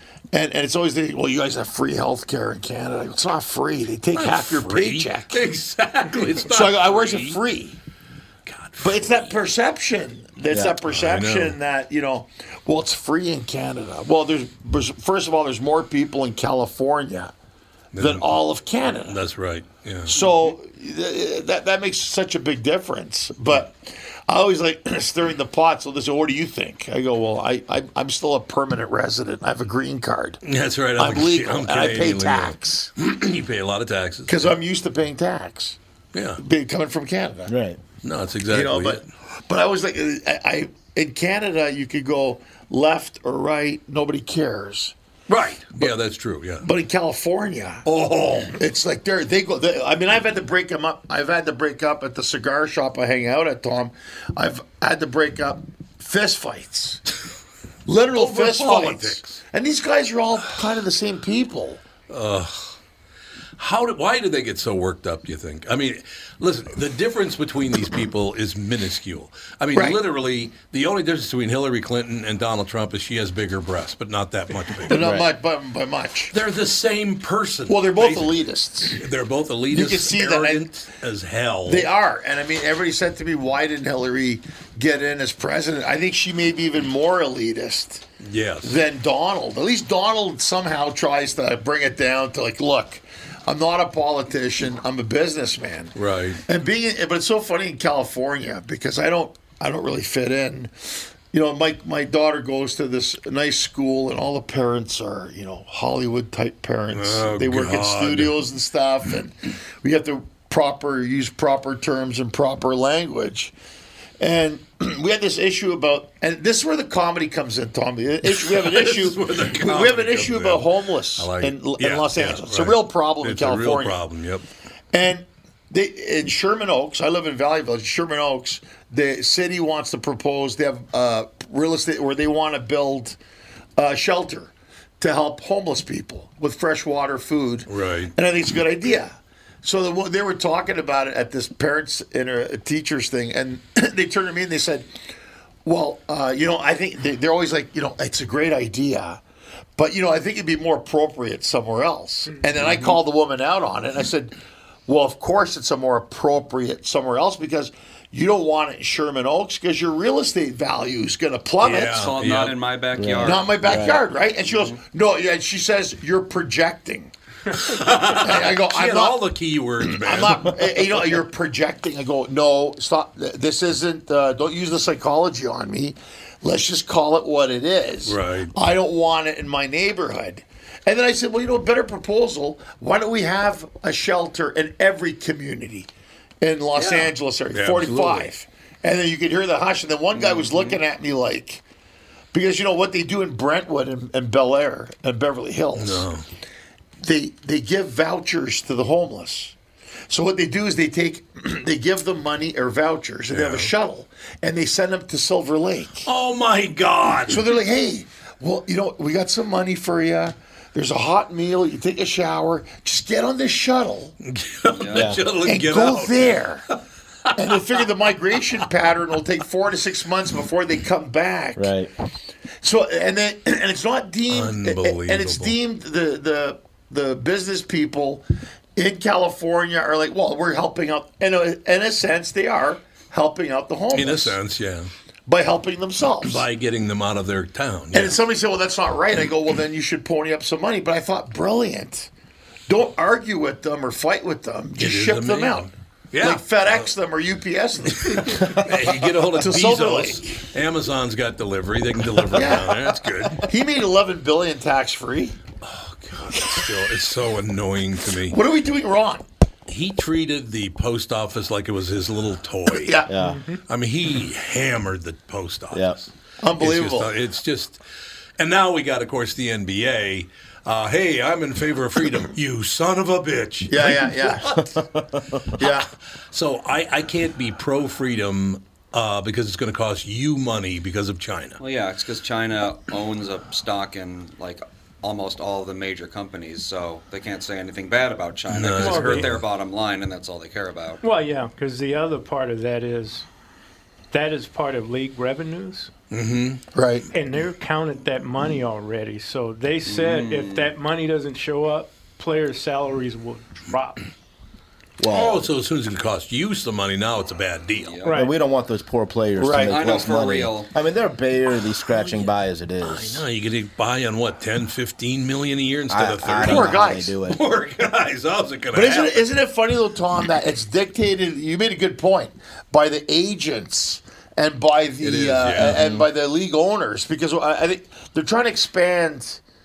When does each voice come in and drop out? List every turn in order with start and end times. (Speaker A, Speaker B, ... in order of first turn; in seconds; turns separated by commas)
Speaker A: 0.3-5.4, Speaker B: 4.1-7.4, Speaker A: 6.5-7.8, Speaker B: 8.5-9.4, Speaker A: 8.8-17.3, Speaker C: 10.5-10.8, Speaker B: 10.8-11.6, Speaker B: 17.9-18.4, Speaker A: 18.0-19.2, Speaker B: 19.0-20.1, Speaker A: 20.1-30.4, Speaker B: 30.4-34.6, Speaker A: 31.0-32.9, Speaker A: 34.3-35.8, Speaker B: 36.1-36.4, Speaker A: 36.4-37.5, Speaker C: 37.5-37.8, Speaker B: 38.0-39.1, Speaker A: 38.5-45.0, Speaker B: 45.3-46.6, Speaker A: 46.6-57.0, Speaker B: 47.9-48.5, Speaker A: 57.9-61.8, Speaker B: 58.1-59.4, Speaker B: 62.1-62.8, Speaker B: 63.6-75.0, Speaker A: 74.9-76.3, Speaker C: 74.9-75.3, Speaker B: 76.3-78.4, Speaker A: 77.7-79.0, Speaker B: 79.0-81.9, Speaker A: 79.7-80.7, Speaker A: 81.7-88.0, Speaker B: 88.2-88.8, Speaker A: 88.6-95.9, Speaker B: 96.0-96.4, Speaker A: 96.5-113.5, Speaker B: 106.9-108.4, Speaker A: 114.2-124.0, Speaker B: 118.2-124.5, Speaker A: 124.9-133.2, Speaker A: 133.8-144.9, Speaker B: 137.7-138.2, Speaker A: 145.7-149.2, Speaker A: 149.8-154.3, Speaker D: 152.6-153.0, Speaker A: 154.9-162.0, Speaker B: 161.6-162.6, Speaker D: 161.9-163.8, Speaker C: 163.0-164.0, Speaker A: 163.2-167.1, Speaker D: 164.5-164.8, Speaker B: 167.6-170.8, Speaker A: 168.1-169.2, Speaker A: 169.8-185.9, Speaker B: 178.1-178.5, Speaker A: 186.4-191.6, Speaker B: 186.8-188.3, Speaker D: 190.2-190.8, Speaker A: 192.3-196.1, Speaker B: 195.8-196.2, Speaker A: 197.0-199.6, Speaker A: 200.1-206.1, Speaker B: 203.3-203.7, Speaker B: 206.1-207.5, Speaker A: 207.3-214.1, Speaker B: 214.2-216.4, Speaker D: 214.7-215.2, Speaker C: 214.9-215.2, Speaker A: 215.4-216.7, Speaker B: 217.3-217.8, Speaker A: 217.3-221.7, Speaker C: 221.6-221.9, Speaker A: 222.6-228.2, Speaker B: 224.3-225.6, Speaker A: 228.8-234.4, Speaker B: 233.9-234.9, Speaker A: 235.3-236.4, Speaker B: 236.2-238.2, Speaker A: 237.9-242.1, Speaker A: 242.7-248.6, Speaker B: 244.8-246.9, Speaker B: 247.9-253.5, Speaker C: 248.4-248.7, Speaker A: 249.4-250.4, Speaker A: 252.3-252.8, Speaker A: 253.4-255.4, Speaker B: 255.6-258.4, Speaker A: 256.3-256.7, Speaker A: 258.3-259.2, Speaker B: 259.7-263.0, Speaker A: 262.7-263.1, Speaker C: 263.1-263.4, Speaker E: 263.2-263.6, Speaker B: 263.7-267.8, Speaker A: 266.4-267.1, Speaker B: 268.4-274.7, Speaker A: 273.7-274.6, Speaker C: 274.5-275.5, Speaker B: 275.5-281.6, Speaker A: 275.6-275.9, Speaker D: 281.6-291.0, Speaker B: 288.5-289.4, Speaker E: 288.8-289.4, Speaker E: 291.0-293.3, Speaker E: 294.1-295.9, Speaker B: 296.1-296.6, Speaker A: 296.8-297.1, Speaker E: 297.1-304.0, Speaker D: 299.9-300.7, Speaker C: 305.0-305.4, Speaker B: 305.1-308.0, Speaker D: 307.8-308.2, Speaker E: 308.0-308.3, Speaker C: 308.1-313.2, Speaker A: 309.4-309.8, Speaker D: 309.6-310.7, Speaker B: 312.8-319.3, Speaker C: 315.9-317.4, Speaker A: 316.4-317.1, Speaker A: 318.7-329.4, Speaker B: 325.0-325.8, Speaker C: 325.6-326.1